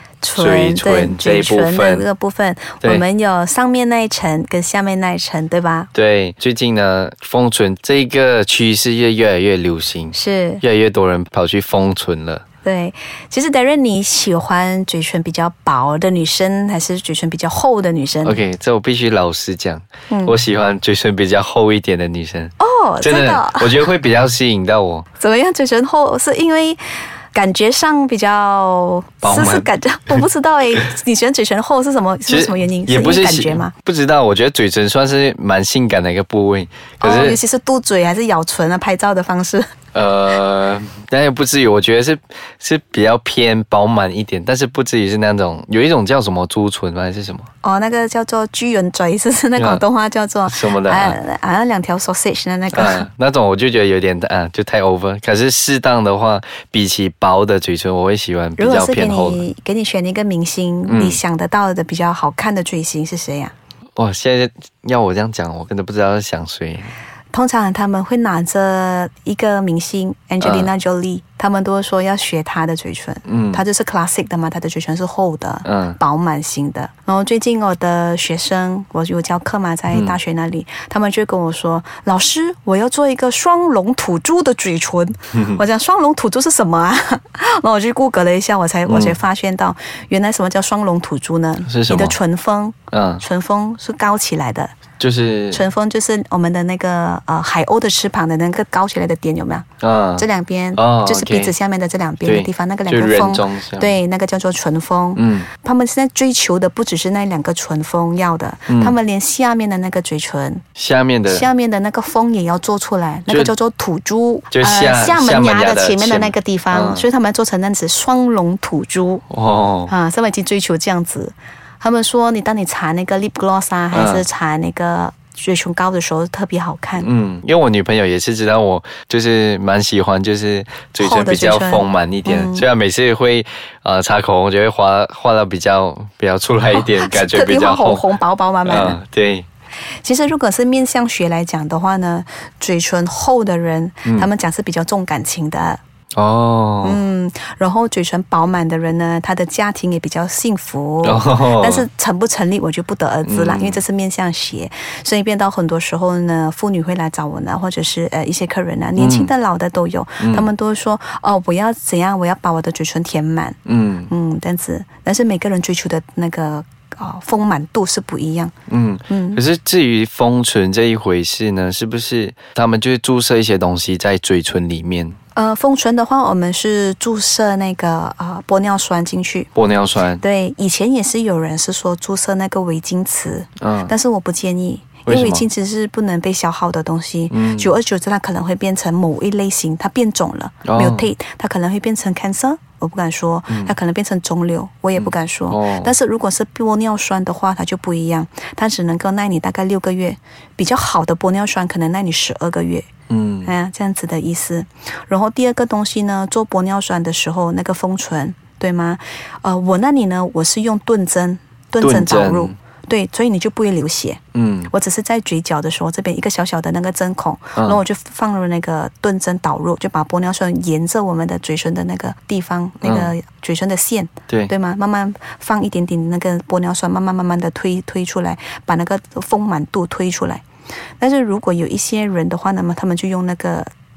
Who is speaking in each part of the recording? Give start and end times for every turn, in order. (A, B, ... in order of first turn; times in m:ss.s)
0:00.2-0:05.9 A
0:00.4-0:02.0 B
0:05.9-0:12.4 B
0:10.1-0:10.6 A
0:12.6-0:18.4 A
0:18.2-0:25.1 B
0:20.1-0:20.4 A
0:22.6-0:23.7 A
0:25.2-0:26.8 A
0:27.3-0:33.7 A
0:29.2-0:30.2 B
0:32.3-0:37.4 B
0:37.0-0:39.7 A
0:39.9-0:47.5 B
0:47.6-0:53.1 A
0:49.6-0:49.8 B
0:50.5-0:51.2 B
0:52.7-0:59.4 B
0:58.6-1:03.5 A
1:00.9-1:01.2 B
1:04.0-1:06.9 B
1:07.3-1:34.8 A
1:10.4-1:10.7 B
1:13.3-1:13.6 B
1:15.6-1:16.0 B
1:19.9-1:20.2 B
1:25.3-1:25.6 B
1:28.9-1:29.2 B
1:31.7-1:32.2 B
1:32.9-1:33.2 B
1:35.0-1:35.7 B
1:35.5-1:39.7 A
1:39.8-1:41.5 B
1:40.2-1:50.6 A
1:42.2-1:44.0 B
1:45.2-1:45.5 B
1:48.7-1:49.0 B
1:50.8-1:51.5 B
1:51.3-1:59.2 A
1:53.3-1:53.5 B
1:54.5-1:57.0 B
1:59.3-1:59.9 B
1:59.9-2:07.1 A
2:03.9-2:04.3 B
2:07.0-2:18.1 B
2:11.0-2:12.7 A
2:16.7-2:19.0 A
2:18.6-2:19.5 B
2:20.0-2:25.8 A
2:24.0-2:24.3 B
2:26.1-2:27.0 B
2:26.8-2:48.5 A
2:31.0-2:31.9 B
2:33.2-2:33.8 B
2:39.0-2:39.3 B
2:40.2-2:40.5 B
2:43.7-2:44.1 B
2:48.7-2:55.2 B
2:49.1-2:49.4 A
2:55.4-2:59.5 A
2:59.6-3:00.2 B
3:00.2-3:22.9 A
3:03.6-3:03.9 B
3:05.1-3:05.5 B
3:07.3-3:07.8 B
3:10.6-3:11.1 B
3:13.5-3:13.8 B
3:15.0-3:15.9 B
3:23.1-3:23.5 B
3:23.5-3:50.4 A
3:31.8-3:32.6 B
3:34.4-3:34.7 B
3:42.8-3:43.1 B
3:51.0-3:53.7 A